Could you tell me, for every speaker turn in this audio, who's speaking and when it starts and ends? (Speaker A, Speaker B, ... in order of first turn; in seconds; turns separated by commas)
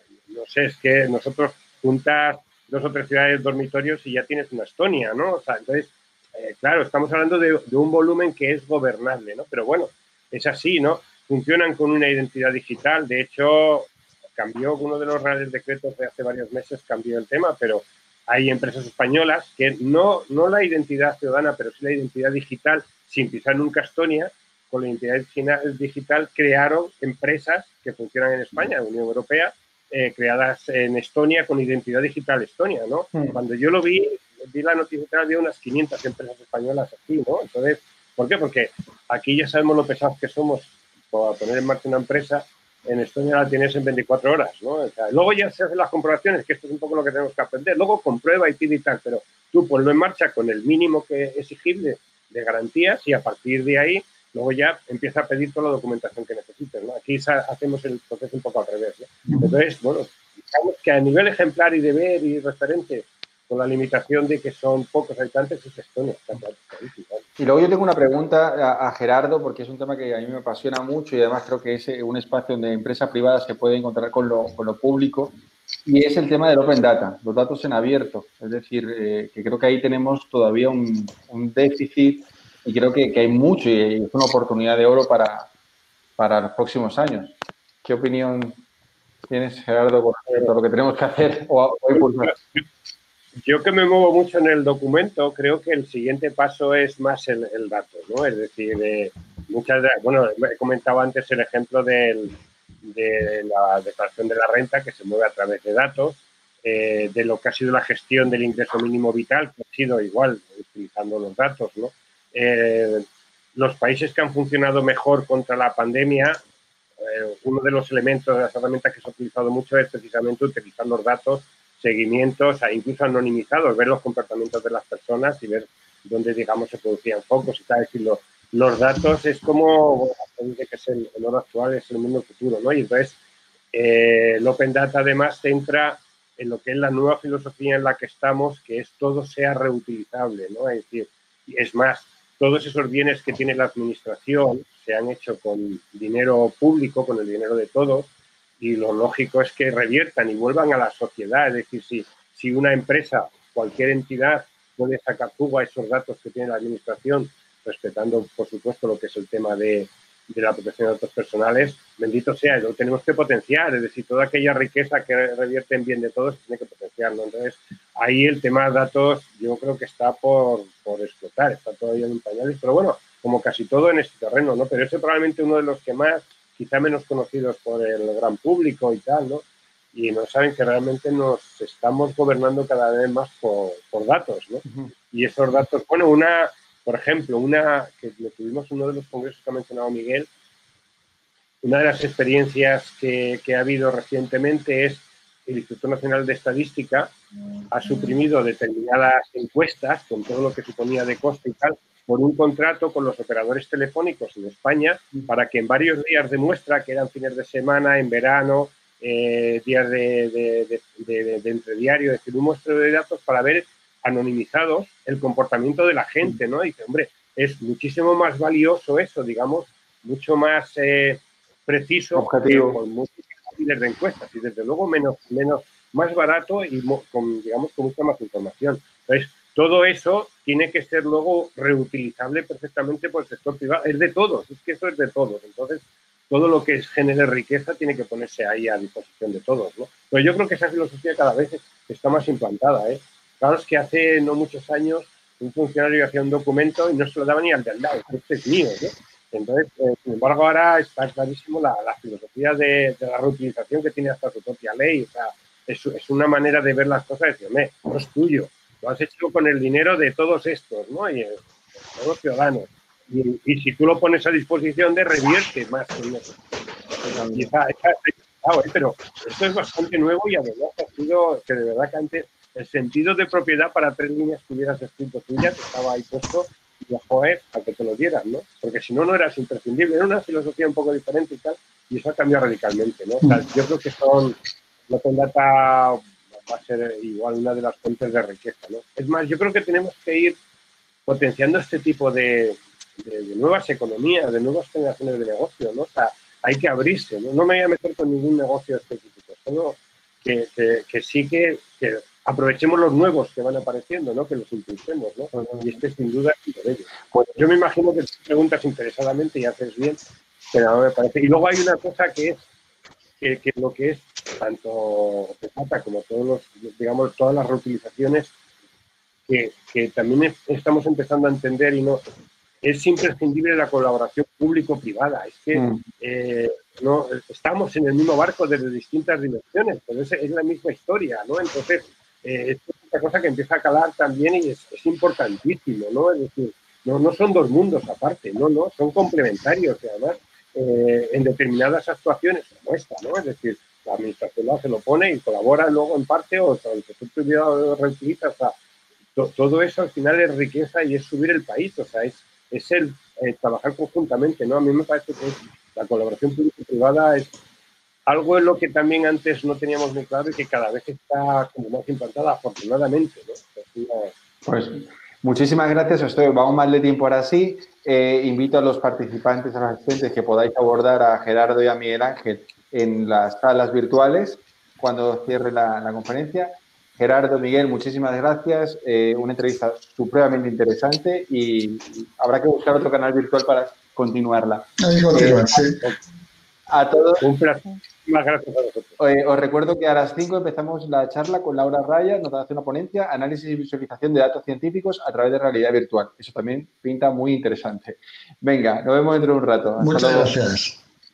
Speaker A: 0.3-67.2, Speaker B: 67.4-85.5, Speaker B: 86.2-88.6, Speaker B: 89.3-92.4, Speaker A: 92.0-92.6, Speaker A: 93.4-116.4, Speaker A: 117.0-133.2, Speaker A: 133.7-190.3, Speaker A: 191.6-197.1, Speaker A: 197.7-266.4, Speaker B: 222.2-222.8, Speaker B: 267.0-267.5, Speaker A: 267.3-284.4, Speaker A: 284.9-290.4, Speaker A: 291.1-310.0, Speaker B: 305.3-305.7, Speaker A: 310.5-312.4, Speaker A: 313.2-318.3, Speaker A: 319.3-322.0, Speaker A: 322.6-348.5, Speaker B: 325.6-325.8, Speaker A: 349.2-357.3, Speaker A: 358.1-364.1, Speaker B: 364.5-385.6, Speaker C: 384.8-385.8, Speaker B: 386.7-387.2, Speaker A: 387.2-389.0, Speaker B: 389.0-400.4, Speaker C: 399.8-400.8